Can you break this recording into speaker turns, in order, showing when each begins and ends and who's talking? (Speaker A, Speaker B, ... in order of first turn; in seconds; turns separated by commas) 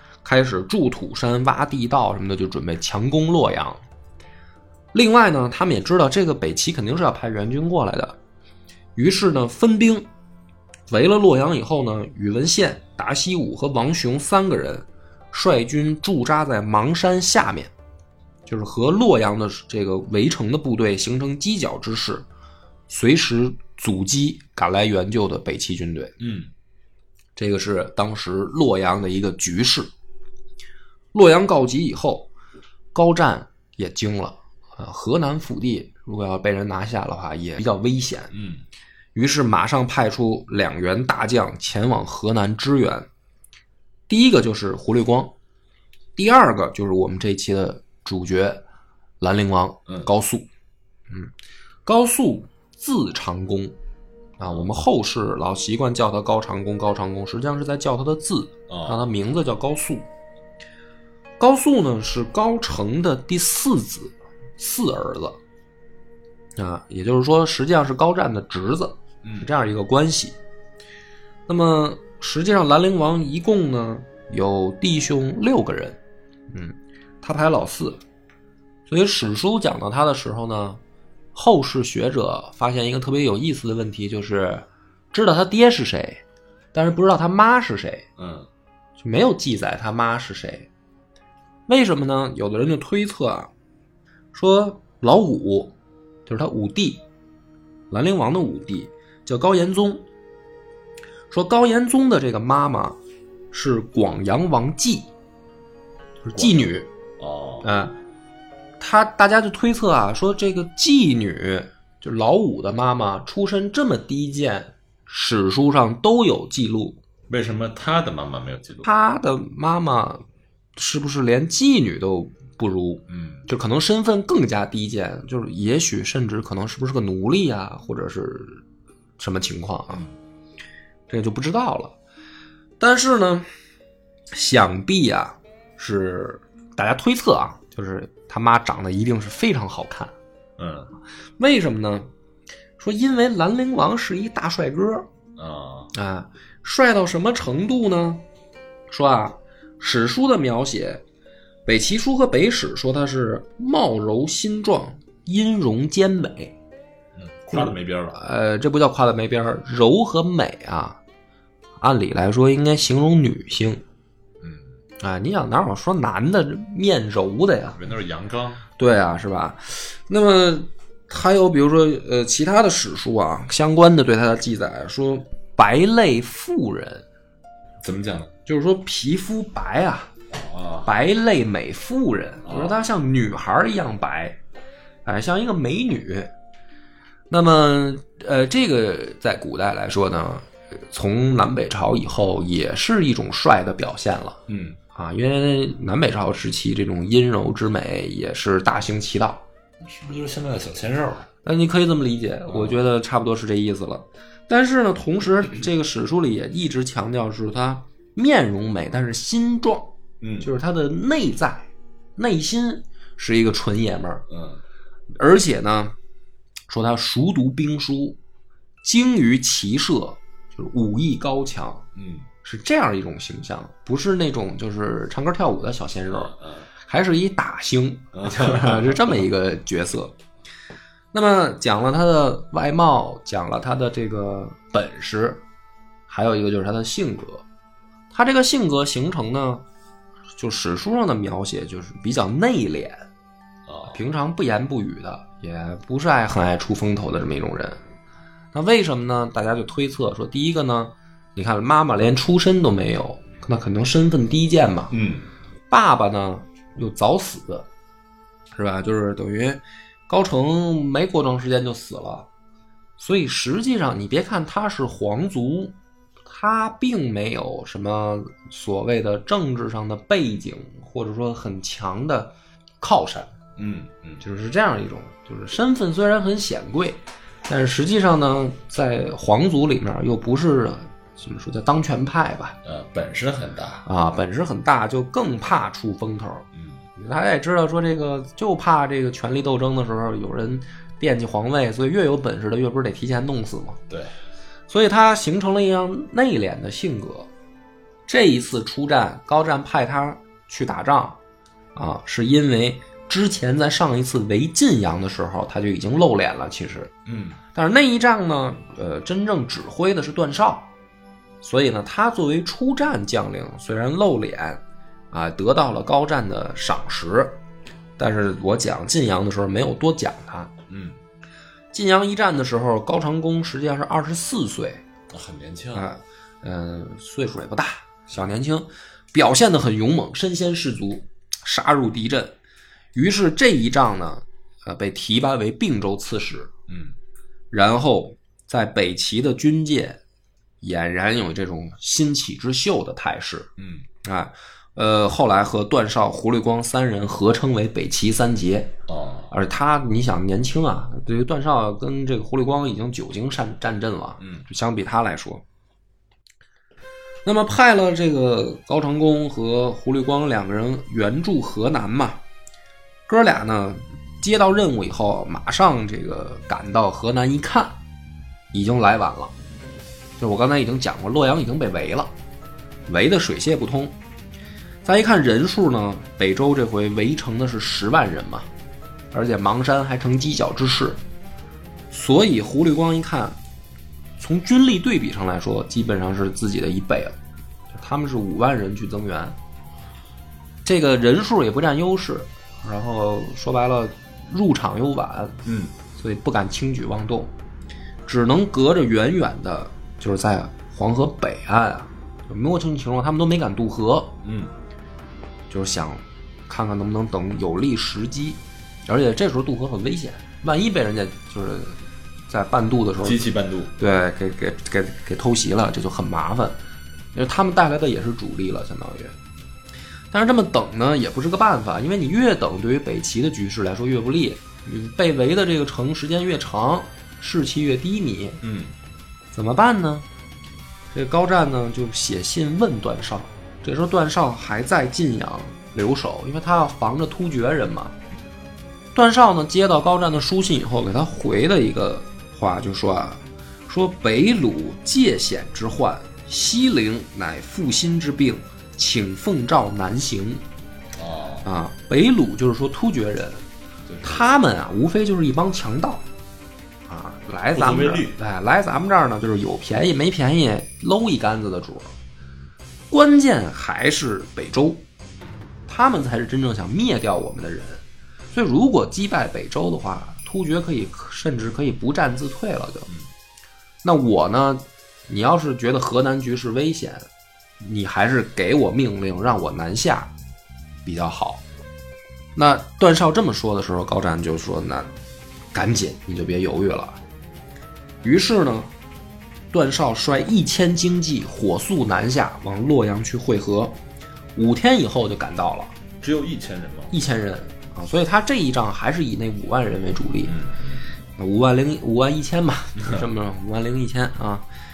Speaker A: 0.2-3.8, Speaker A: 4.9-8.2, Speaker A: 8.9-10.1, Speaker A: 10.9-17.7, Speaker A: 18.4-22.2, Speaker A: 22.9-26.1, Speaker B: 26.2-26.5, Speaker A: 27.4-29.9, Speaker A: 31.1-32.3, Speaker A: 32.9-38.3, Speaker B: 38.3-38.6, Speaker A: 39.1-43.1, Speaker A: 44.1-45.3, Speaker A: 46.1-48.6, Speaker A: 49.2-50.5, Speaker A: 51.9-53.7, Speaker A: 54.4-60.0, Speaker B: 58.7-59.0, Speaker A: 61.4-65.4, Speaker A: 66.6-70.4, Speaker B: 69.2-69.5, Speaker A: 71.5-76.0, Speaker A: 76.5-78.0, Speaker A: 78.9-80.8, Speaker A: 81.3-86.2, Speaker A: 86.7-88.1, Speaker B: 88.2-88.5, Speaker A: 89.0-90.7, Speaker A: 91.7-93.5, Speaker A: 94.3-95.7, Speaker A: 96.2-97.0, Speaker A: 97.9-100.0, Speaker A: 101.3-103.0, Speaker A: 103.5-105.1, Speaker A: 106.2-106.9, Speaker B: 107.2-107.7, Speaker A: 107.6-108.0, Speaker A: 108.8-117.0, Speaker B: 117.3-118.8, Speaker A: 118.8-120.2, Speaker A: 120.8-128.6, Speaker B: 123.1-123.4, Speaker A: 129.2-130.0, Speaker A: 131.1-131.9, Speaker A: 132.8-133.5, Speaker A: 134.3-140.1, Speaker B: 140.6-140.9, Speaker A: 141.4-142.1, Speaker A: 142.8-145.1, Speaker B: 145.4-145.9, Speaker A: 145.9-148.2, Speaker A: 148.9-151.0, Speaker A: 151.7-156.5, Speaker B: 157.2-158.2, Speaker A: 157.5-161.0, Speaker A: 161.8-163.8, Speaker B: 164.4-164.7, Speaker A: 165.0-167.8, Speaker B: 167.8-168.6, Speaker A: 168.8-177.0, Speaker B: 177.8-178.3, Speaker A: 178.4-180.1, Speaker B: 180.3-180.9, Speaker A: 180.8-184.4, Speaker B: 182.4-182.7, Speaker A: 185.0-186.3, Speaker A: 187.3-194.4, Speaker B: 194.5-194.8, Speaker A: 194.9-199.4, Speaker B: 199.8-201.3, Speaker A: 201.4-214.2, Speaker B: 202.5-202.8, Speaker B: 210.2-210.5, Speaker B: 214.3-214.6, Speaker A: 215.2-215.9, Speaker A: 216.7-218.2, Speaker A: 218.8-221.8, Speaker B: 221.9-222.2, Speaker A: 222.4-230.1, Speaker B: 226.2-226.7, Speaker B: 228.1-229.2, Speaker A: 231.1-235.4, Speaker A: 236.1-237.4, Speaker A: 238.1-239.6, Speaker A: 240.4-243.1, Speaker B: 243.7-243.9, Speaker A: 243.9-247.8, Speaker A: 248.5-254.9, Speaker B: 254.9-255.2, Speaker A: 255.7-257.7, Speaker A: 258.5-262.3, Speaker A: 263.0-265.7, Speaker A: 266.2-273.3, Speaker B: 273.6-274.2, Speaker A: 274.2-282.6, Speaker B: 282.6-283.8, Speaker A: 283.9-293.8, Speaker B: 286.5-286.8, Speaker A: 294.7-297.3, Speaker A: 298.1-301.2, Speaker A: 301.8-306.9, Speaker B: 307.1-307.4, Speaker A: 307.5-310.7, Speaker A: 311.4-314.6, Speaker A: 315.1-317.4, Speaker A: 318.0-320.5, Speaker B: 320.7-321.0, Speaker A: 321.7-324.8, Speaker B: 325.1-325.9, Speaker A: 325.7-332.4, Speaker A: 332.9-336.5, Speaker B: 336.7-336.9, Speaker A: 337.5-340.0, Speaker A: 340.6-343.5, Speaker B: 343.6-343.8, Speaker A: 344.0-348.7, Speaker B: 348.9-349.3, Speaker A: 349.3-355.4, Speaker A: 357.2-362.2, Speaker A: 363.1-367.8, Speaker A: 368.5-369.3, Speaker A: 370.2-372.1, Speaker A: 372.9-373.9, Speaker A: 374.8-378.5, Speaker A: 379.1-381.0, Speaker A: 381.9-383.4, Speaker A: 384.2-387.2, Speaker A: 387.7-389.4, Speaker A: 390.6-395.4, Speaker B: 395.4-395.7, Speaker A: 395.9-397.3, Speaker A: 398.1-404.2, Speaker B: 404.2-404.5, Speaker A: 405.5-413.2, Speaker B: 413.0-413.8, Speaker A: 413.8-416.6, Speaker A: 417.1-419.1, Speaker A: 420.1-428.4, Speaker B: 428.4-428.7, Speaker A: 429.3-430.1, Speaker A: 430.9-437.9, Speaker A: 438.9-450.4, Speaker B: 451.0-451.4, Speaker A: 451.4-453.4, Speaker B: 453.9-454.3, Speaker A: 454.0-456.0, Speaker A: 456.9-461.9, Speaker B: 457.5-458.2, Speaker A: 462.9-464.8, Speaker A: 465.7-467.8, Speaker A: 468.3-472.9, Speaker A: 473.8-477.1, Speaker A: 477.6-480.1, Speaker A: 480.8-481.4, Speaker A: 482.4-484.9, Speaker A: 485.5-487.0, Speaker A: 488.0-488.7, Speaker A: 489.5-493.8, Speaker A: 494.4-495.7, Speaker B: 496.0-496.9, Speaker A: 496.9-500.4, Speaker B: 500.3-500.8, Speaker A: 501.2-504.4